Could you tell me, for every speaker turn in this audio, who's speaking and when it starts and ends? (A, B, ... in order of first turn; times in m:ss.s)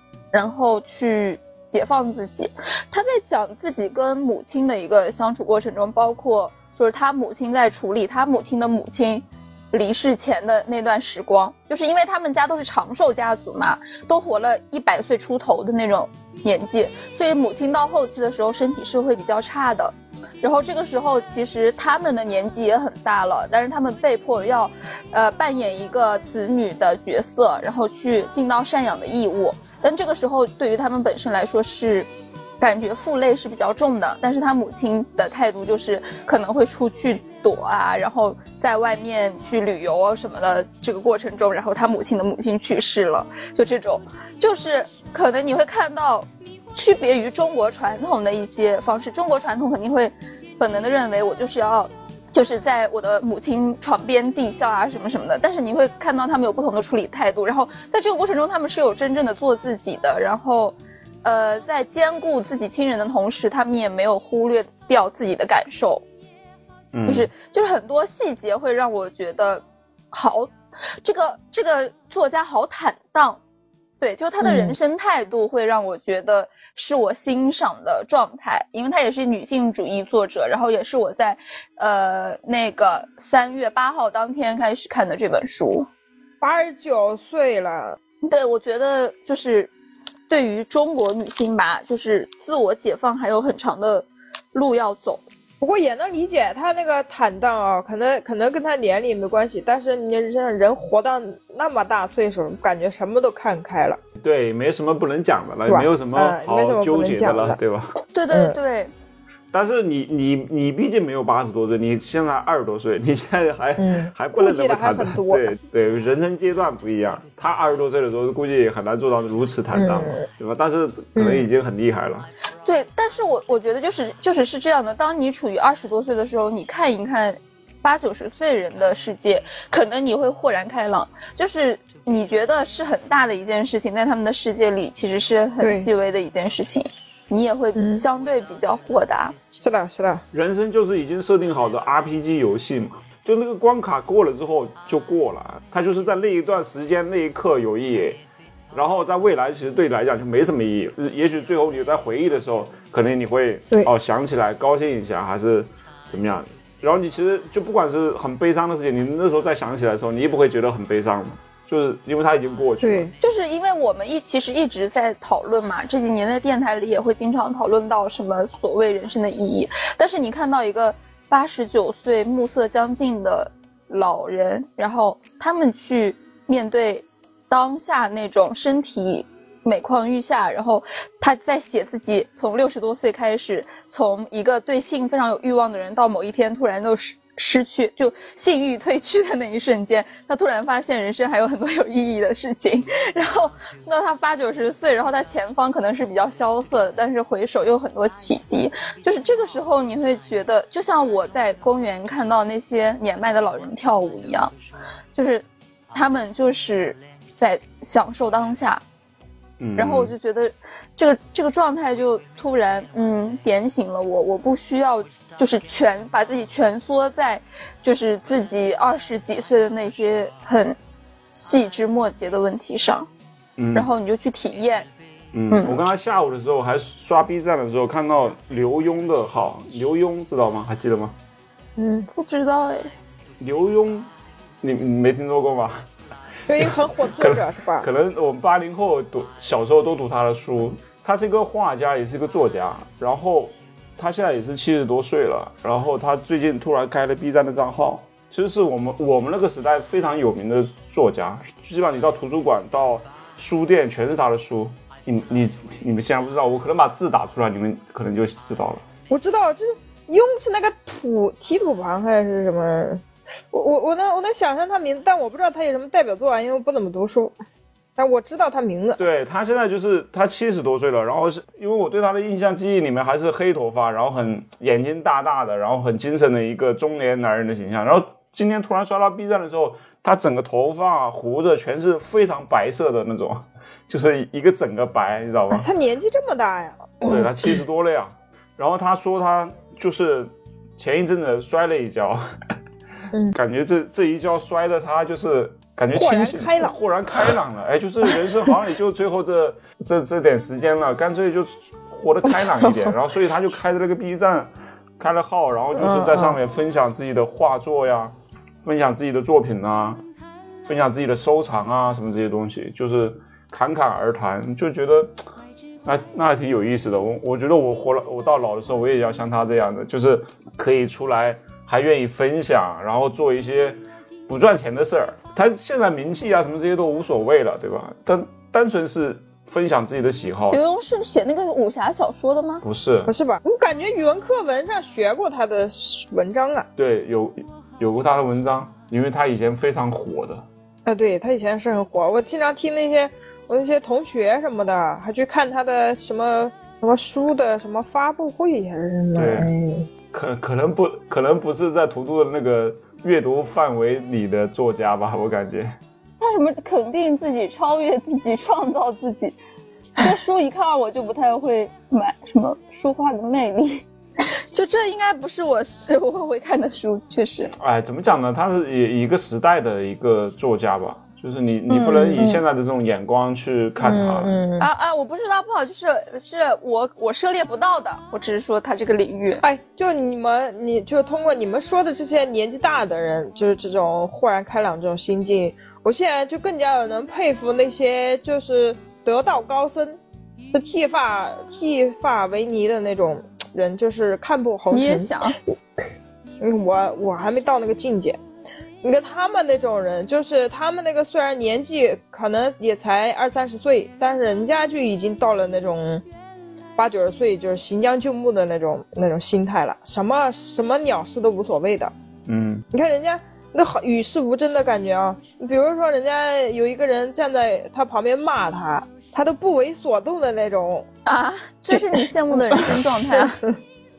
0:00.3-0:32.1 A
0:32.6-1:06.0 A
1:06.9-1:07.3 B
1:07.1-1:13.4 A
1:14.0-1:25.9 A
1:14.4-1:14.8 C
1:26.4-1:28.0 C
1:28.2-1:29.7 A
1:30.3-1:35.2 A
1:35.6-1:44.0 C
1:44.2-1:48.0 B
1:45.6-1:47.6 C
1:48.1-1:48.9 A
1:48.3-1:48.6 C
1:49.5-2:02.3 B
1:53.8-1:55.4 C
1:59.7-2:00.2 C
2:01.2-2:01.4 C
2:02.6-2:19.4 A
2:15.6-2:15.9 C
2:17.8-2:18.0 C
2:19.6-2:20.2 C
2:20.3-2:28.2 B
2:28.7-2:43.1 B
2:42.8-2:43.1 C
2:43.2-3:24.5 A
3:25.1-3:28.8 A
3:29.6-3:30.1 B
3:29.8-3:40.8 A
3:41.3-3:43.1 A
3:43.6-3:43.9 B
3:43.7-3:44.9 A
3:45.3-3:51.1 B
3:45.5-3:45.8 A
3:51.8-3:52.1 C
3:52.1-3:52.9 A
3:53.4-3:54.1 B
3:54.6-3:55.8 B
3:56.5-3:57.9 C
3:56.5-4:18.8 B
4:19.1-4:27.4 C
4:28.0-4:29.0 C
4:29.0-4:45.7 B
4:45.5-4:47.3 C
4:47.0-4:52.3 B
4:53.3-5:08.1 B
4:55.9-4:57.4 C
4:58.1-4:58.6 C
5:02.6-5:02.9 C
5:05.8-5:06.4 C
5:08.6-5:10.0 B
5:10.7-5:15.2 B
5:15.8-5:30.6 B
5:30.5-5:32.6 A
5:32.6-5:33.1 B
5:33.1-5:36.7 C
5:36.8-5:40.4 B
5:40.8-5:49.9 C
5:49.1-5:49.5 B
5:50.1-5:55.7 B
5:56.2-5:59.4 A
6:00.0-6:03.8 A
6:04.5-6:07.5 A
6:07.6-6:14.4 B
6:11.7-6:12.3 A
6:13.8-6:14.7 C
6:14.6-6:19.4 A
6:19.4-6:30.0 C
6:30.5-6:35.1 C
6:34.7-6:35.4 A
6:36.4-6:38.2 C
6:38.8-6:46.0 C
6:46.8-6:51.9 C
6:52.3-6:52.6 B
6:52.7-7:00.9 C
7:01.0-7:03.4 A
7:01.7-7:03.6 C